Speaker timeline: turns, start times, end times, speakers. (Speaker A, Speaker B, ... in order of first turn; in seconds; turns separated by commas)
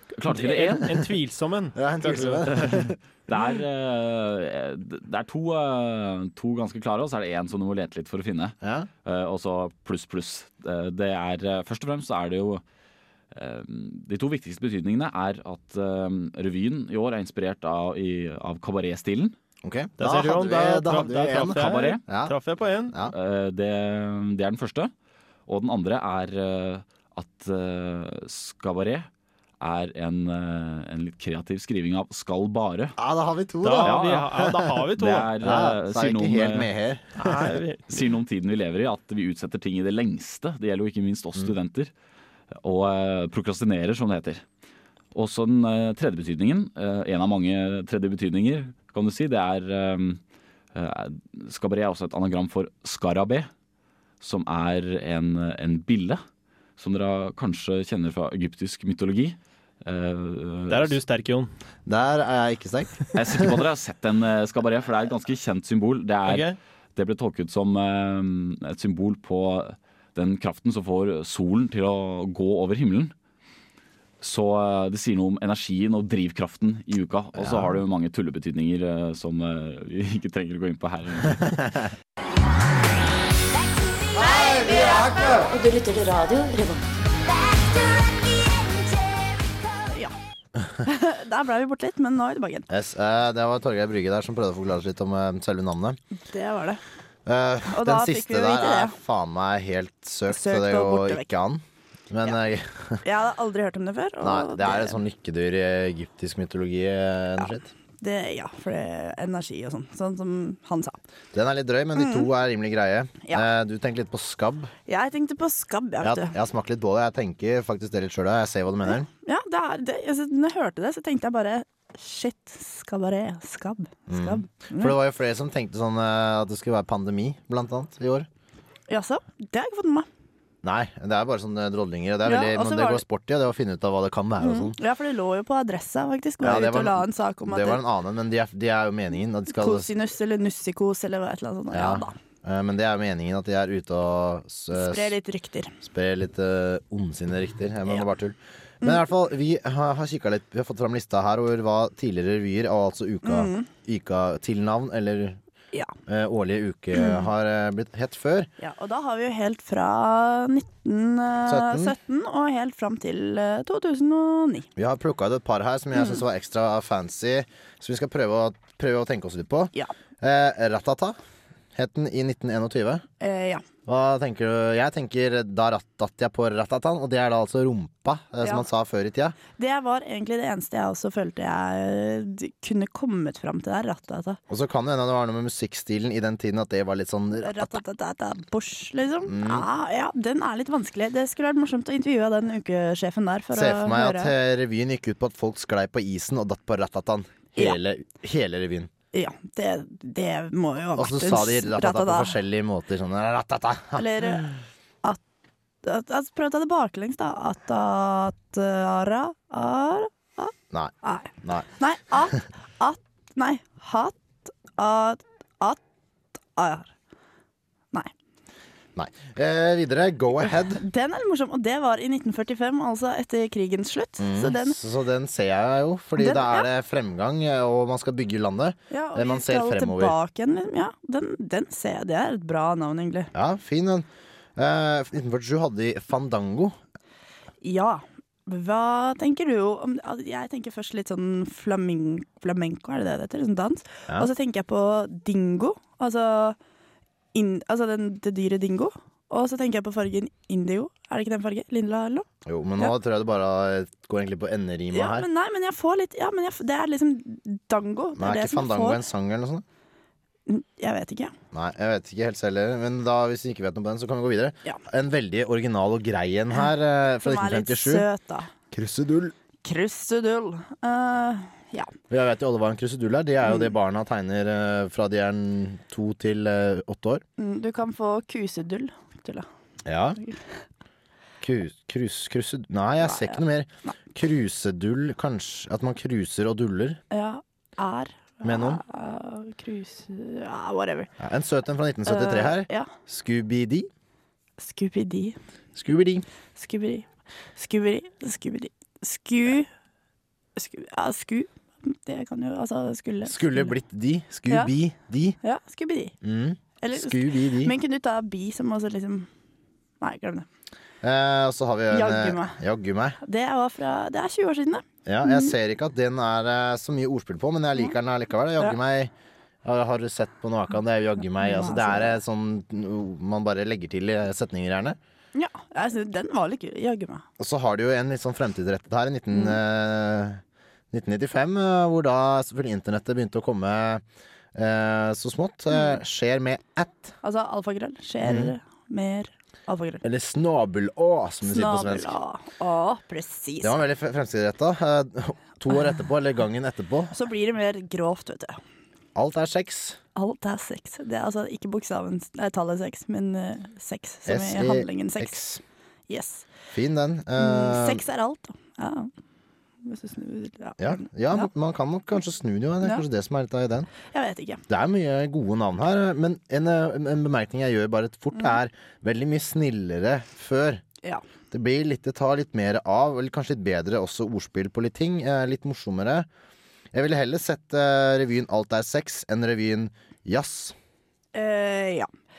Speaker A: 0.1-1.1, Speaker B: 0.3-2.9, Speaker C: 1.7-2.9, Speaker A: 2.6-12.6, Speaker C: 8.6-8.9, Speaker A: 13.3-19.3, Speaker C: 19.6-22.3, Speaker B: 20.0-22.9, Speaker A: 21.5-22.0, Speaker C: 22.9-23.1, Speaker A: 23.1-24.9, Speaker A: 25.5-29.1, Speaker A: 29.6-32.9, Speaker C: 33.0-34.9, Speaker B: 33.6-35.3, Speaker A: 33.8-36.7, Speaker C: 35.4-37.5, Speaker B: 37.2-37.8, Speaker A: 37.9-41.9, Speaker A: 42.6-44.4, Speaker A: 45.1-50.2, Speaker A: 50.7-53.5, Speaker A: 54.2-56.2, Speaker A: 56.8-61.0, Speaker B: 60.7-61.5, Speaker C: 61.9-63.6, Speaker A: 63.1-73.1, Speaker B: 66.3-66.6, Speaker A: 74.2-81.6, Speaker C: 77.4-77.8, Speaker D: 84.2-86.8, Speaker C: 84.2-85.5, Speaker E: 89.9-90.1, Speaker E: 90.8-92.7, Speaker C: 92.7-96.0, Speaker E: 96.2-96.8, Speaker C: 97.2-103.0, Speaker E: 97.7-99.0, Speaker E: 100.3-101.3, Speaker E: 103.0-105.0, Speaker C: 104.2-107.7, Speaker E: 108.0-111.0, Speaker C: 111.3-114.7, Speaker E: 112.0-112.3, Speaker E: 114.9-116.3, Speaker C: 116.0-119.1, Speaker E: 119.2-124.9, Speaker C: 124.1-128.3, Speaker E: 128.9-130.1, Speaker C: 130.6-134.8, Speaker E: 132.2-133.0, Speaker E: 134.4-137.8, Speaker C: 136.4-139.9, Speaker E: 139.5-142.2, Speaker C: 141.7-145.1, Speaker E: 144.7-145.8, Speaker C: 145.8-155.4, Speaker E: 153.2-153.7, Speaker C: 156.1-158.5, Speaker E: 156.9-157.3, Speaker E: 158.6-164.7, Speaker C: 161.4-161.9, Speaker C: 164.8-171.2, Speaker E: 165.9-166.2, Speaker C: 171.7-173.0, Speaker E: 173.2-173.6, Speaker C: 173.8-179.4, Speaker E: 179.6-184.4, Speaker C: 184.5-187.8, Speaker E: 187.4-194.3, Speaker C: 189.2-189.7, Speaker C: 193.5-198.9, Speaker E: 199.1-202.3, Speaker C: 201.0-204.6, Speaker E: 203.9-204.4, Speaker E: 205.8-215.8, Speaker C: 210.7-211.7, Speaker E: 216.5-216.9, Speaker C: 218.9-220.8, Speaker E: 220.7-224.8, Speaker C: 224.2-230.2, Speaker E: 226.2-226.7, Speaker E: 228.9-233.3, Speaker C: 233.3-236.8, Speaker E: 237.6-246.6, Speaker E: 247.3-252.2, Speaker C: 252.4-255.3, Speaker E: 254.9-259.0, Speaker C: 258.2-259.6, Speaker E: 260.5-261.3, Speaker C: 261.5-268.1, Speaker E: 267.2-268.5, Speaker C: 268.7-269.3, Speaker E: 269.6-271.9, Speaker C: 272.1-277.2, Speaker E: 277.4-279.5, Speaker C: 279.8-280.2, Speaker C: 281.4-287.0, Speaker E: 283.0-283.9, Speaker E: 287.1-291.1, Speaker C: 288.4-288.8, Speaker C: 291.2-293.9, Speaker E: 292.1-292.9, Speaker E: 294.6-295.4, Speaker C: 295.7-296.2, Speaker E: 296.6-299.7, Speaker E: 300.6-303.7, Speaker C: 303.2-305.4, Speaker E: 305.4-306.1, Speaker C: 306.2-307.7, Speaker E: 306.8-309.3, Speaker E: 310.0-310.4, Speaker C: 311.0-313.2, Speaker E: 311.9-312.6, Speaker E: 313.2-315.5, Speaker C: 315.1-319.1, Speaker C: 319.6-325.0, Speaker E: 321.4-322.2, Speaker E: 325.3-327.2, Speaker C: 327.4-334.0, Speaker E: 329.3-329.6, Speaker C: 334.5-337.1, Speaker E: 337.2-340.0, Speaker C: 338.2-338.5, Speaker C: 340.0-342.1, Speaker E: 341.4-343.8, Speaker C: 343.6-347.1, Speaker E: 347.1-348.6, Speaker C: 349.1-350.0, Speaker E: 350.1-355.4, Speaker C: 354.2-355.6, Speaker E: 356.1-356.4, Speaker C: 356.7-358.0, Speaker E: 357.4-359.1, Speaker E: 359.8-361.5, Speaker C: 360.8-363.9, Speaker E: 364.1-364.6, Speaker C: 364.7-370.8, Speaker C: 371.5-376.3, Speaker C: 376.9-380.7, Speaker E: 381.3-382.1